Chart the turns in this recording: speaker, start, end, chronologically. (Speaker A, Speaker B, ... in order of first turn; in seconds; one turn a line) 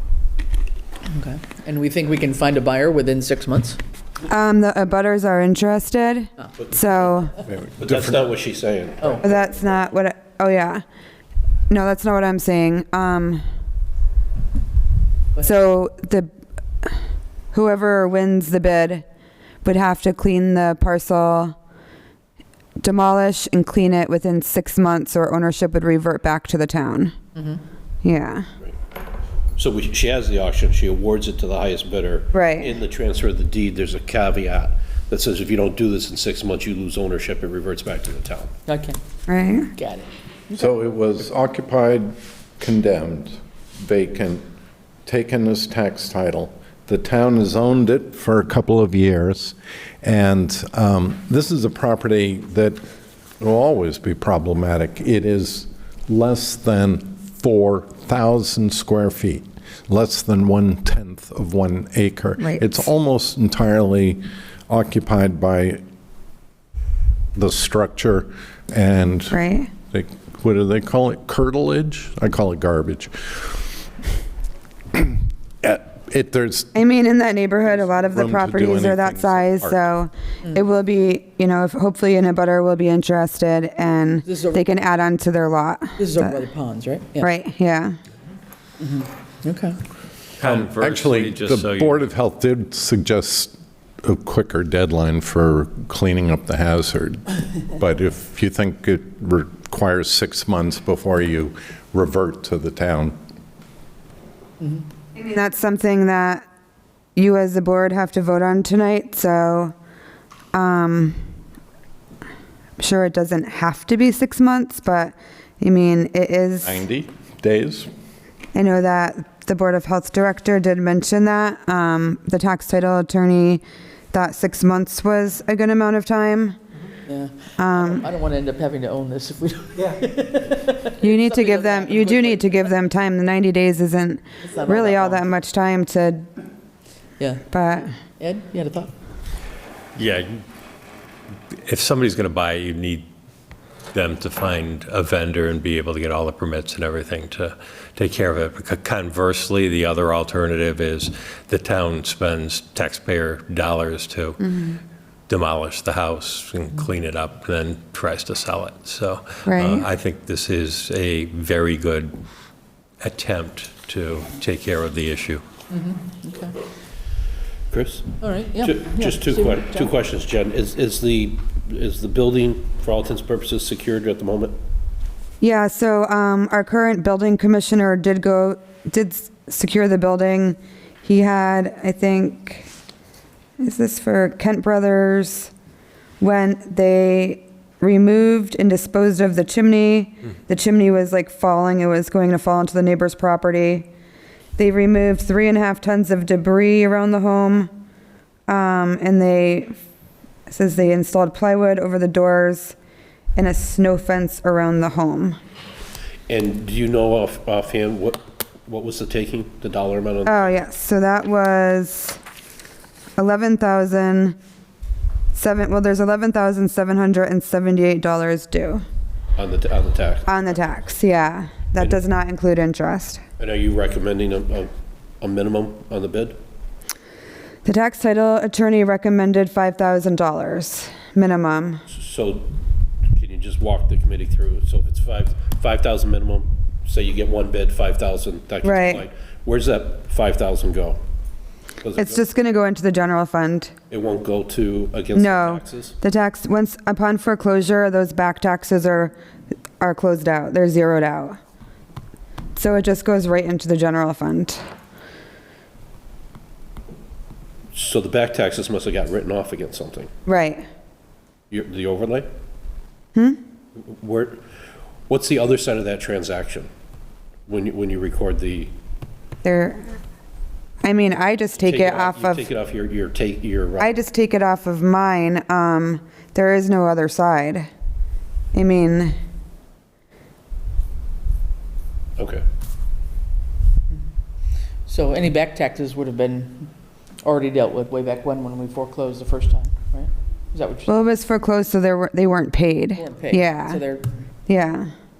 Speaker A: 1.1-3.8
Speaker B: 4.3-7.3
Speaker C: 7.5-8.2
Speaker D: 7.8-9.2
Speaker B: 9.2-10.8
Speaker B: 11.7-13.4
Speaker B: 15.4-16.3
Speaker B: 17.5-19.1
Speaker B: 19.6-21.6
Speaker B: 22.8-27.1
Speaker B: 28.0-28.5
Speaker D: 29.6-38.5
Speaker B: 32.3-32.7
Speaker A: 38.7-39.0
Speaker B: 39.3-39.7
Speaker A: 39.7-40.1
Speaker C: 40.5-44.4
Speaker C: 45.1-52.8
Speaker C: 53.4-65.8
Speaker B: 62.4-62.8
Speaker C: 67.4-69.4
Speaker B: 69.3-69.7
Speaker C: 69.9-73.6
Speaker C: 74.9-76.7
Speaker B: 76.8-86.4
Speaker C: 78.0-79.8
Speaker A: 84.2-84.7
Speaker A: 86.0-87.3
Speaker B: 87.2-88.0
Speaker A: 88.8-89.8
Speaker E: 90.4-92.1
Speaker C: 90.4-103.2
Speaker B: 105.2-106.4
Speaker B: 107.2-109.8
Speaker B: 110.5-111.2
Speaker B: 112.8-116.8
Speaker C: 116.7-117.9
Speaker B: 118.5-126.6
Speaker A: 127.1-132.6
Speaker B: 127.6-128.1
Speaker B: 131.0-136.3
Speaker A: 134.4-135.3
Speaker A: 137.2-137.5
Speaker B: 137.5-137.9
Speaker A: 138.2-138.9
Speaker E: 140.0-140.4
Speaker E: 141.7-143.1
Speaker E: 143.9-154.7
Speaker B: 154.4-154.8
Speaker E: 155.3-162.1
Speaker B: 159.5-159.9
Speaker E: 163.0-165.4
Speaker A: 165.7-166.6
Speaker D: 167.7-174.5
Speaker A: 168.2-169.9
Speaker B: 175.4-182.7
Speaker B: 183.6-185.5
Speaker B: 186.2-193.9
Speaker B: 194.6-197.7
Speaker B: 198.5-199.8
Speaker B: 200.5-202.8
Speaker B: 203.4-205.4
Speaker D: 206.3-210.6
Speaker B: 210.3-212.2
Speaker B: 213.2-214.4
Speaker B: 215.3-218.8
Speaker D: 219.4-220.4
Speaker B: 220.3-223.2
Speaker D: 223.4-224.7
Speaker D: 225.2-226.4
Speaker B: 227.7-231.8
Speaker D: 231.9-232.5
Speaker D: 233.2-241.0
Speaker B: 238.6-239.0
Speaker D: 241.8-242.2
Speaker B: 242.0-243.7
Speaker D: 243.9-246.0
Speaker B: 245.2-249.1
Speaker B: 249.8-251.4
Speaker B: 252.6-254.6
Speaker D: 257.7-260.1
Speaker B: 260.3-260.6
Speaker D: 261.5-262.3
Speaker D: 263.8-264.4
Speaker D: 265.1-266.7
Speaker D: 267.5-268.7
Speaker B: 269.4-269.9
Speaker B: 270.8-272.5
Speaker D: 271.6-273.9
Speaker B: 273.8-277.7
Speaker B: 278.5-279.1
Speaker A: 284.9-286.7
Speaker A: 287.2-290.9
Speaker B: 290.9-293.8
Speaker A: 292.9-294.1
Speaker B: 294.5-294.9